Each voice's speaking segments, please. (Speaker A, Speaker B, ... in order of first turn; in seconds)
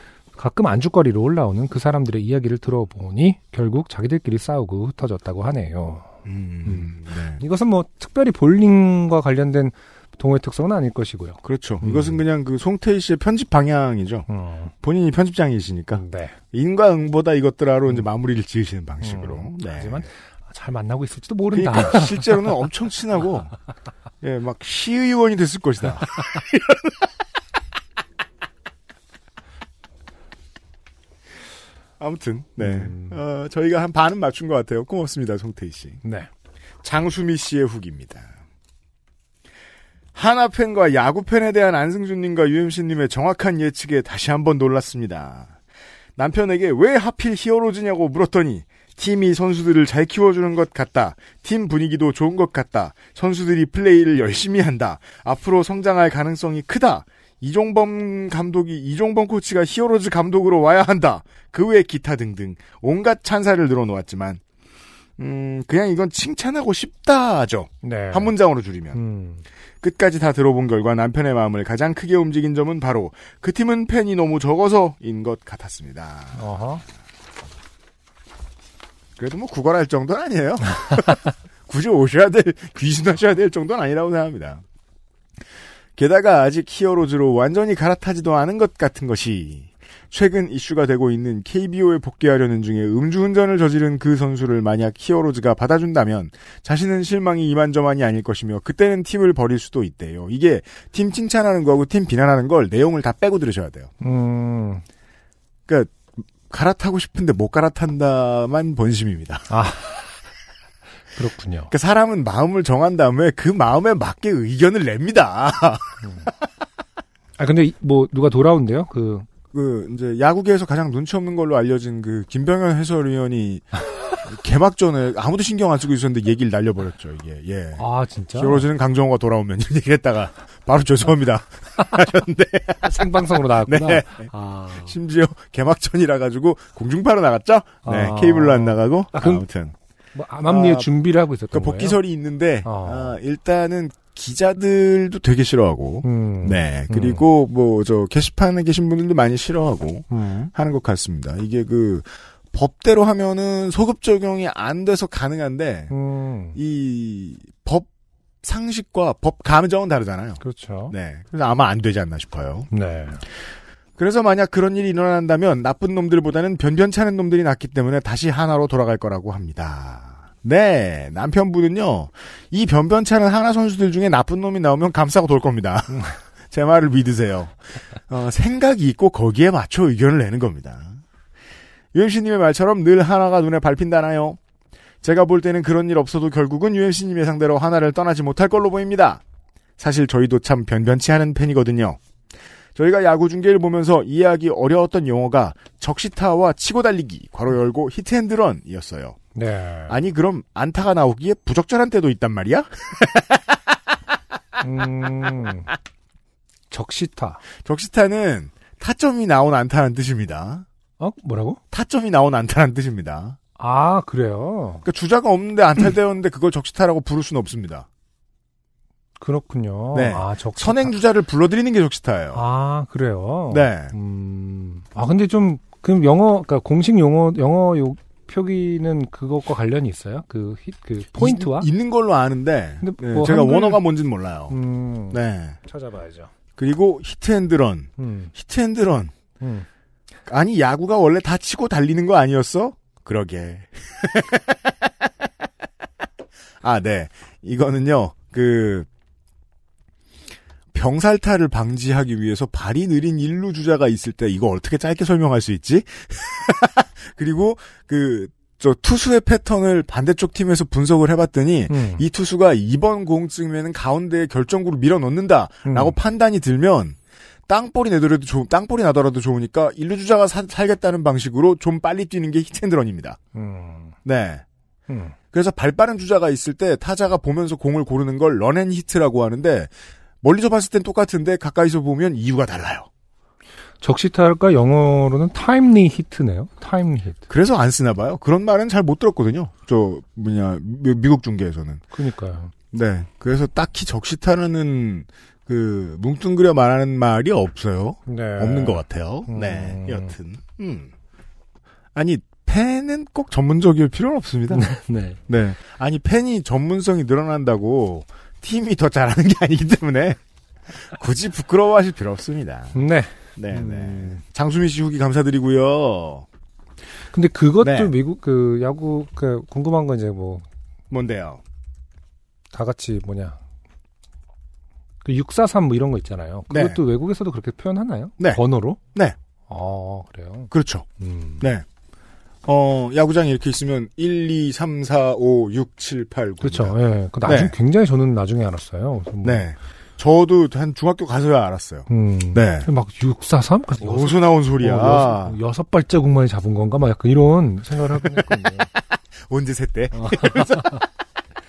Speaker A: 0.4-6.1, 7.4-12.2, 14.3-14.7, 16.0-16.4, 19.0-22.5, 32.6-33.2, 36.0-36.3, 67.8-68.3, 68.9-69.4, 76.3-76.8, 104.0-104.8, 109.5-110.1, 111.2-111.7, 117.4-119.3, 127.8-128.7, 132.8-134.9, 137.8-139.4, 140.1-142.0, 142.6-143.2, 146.0-147.2, 150.1-150.5, 155.9-156.6, 160.4-160.9, 162.7-163.2, 199.3-200.0, 204.6-205.7, 206.7-207.4, 211.0-211.6, 213.6-214.8, 219.2-220.9, 222.3-231.7, 232.8-233.8, 234.5-236.3, 238.0-238.3, 239.4-239.7, 261.7-262.0, 265.6-266.0, 273.3-273.9, 274.9-275.1, 283.8-287.2, 291.9-292.5, 298.1-300.1, 304.5-305.2, 312.7-314.2, 317.1-320.4, 322.5-323.4, 325.0-328.8, 329.5-331.4, 336.4-339.4, 341.9-348.7, 349.9-350.9
Speaker B: 6.2-7.4, 11.4-14.3, 14.8-20.0, 21.5-23.5, 24.2-26.8, 32.0-36.0, 36.8-38.3, 40.1-45.5, 46.2-64.4, 65.2-69.0, 69.8-76.5, 79.2-84.6, 86.0-103.9, 105.7-109.6, 111.7-116.3, 119.5-123.7, 124.2-139.7, 140.4-140.9, 141.5-155.9, 156.5-157.9, 158.4-162.7, 164.0-181.0, 181.9-184.4, 185.0-189.2, 189.8-192.0, 192.7-199.2, 199.9-203.4, 207.6-210.7, 211.7-213.4, 214.8-217.9, 219.9-222.4, 223.5-223.9, 231.1-234.6, 235.1-235.6, 236.6-239.1, 240.2-244.9, 246.6-248.9, 250.7-267.0, 267.5-273.2, 274.0-274.4, 275.3-279.7, 280.2-282.9, 287.3-291.8, 292.7-300.9, 301.9-304.7, 305.3-310.2, 310.7-312.8, 313.4-316.3, 317.6-317.9, 320.9-321.4, 326.5-326.8, 330.5-330.9, 331.4-331.6, 332.4-337.5, 339.2-342.7, 343.8-345.4, 348.0-350.8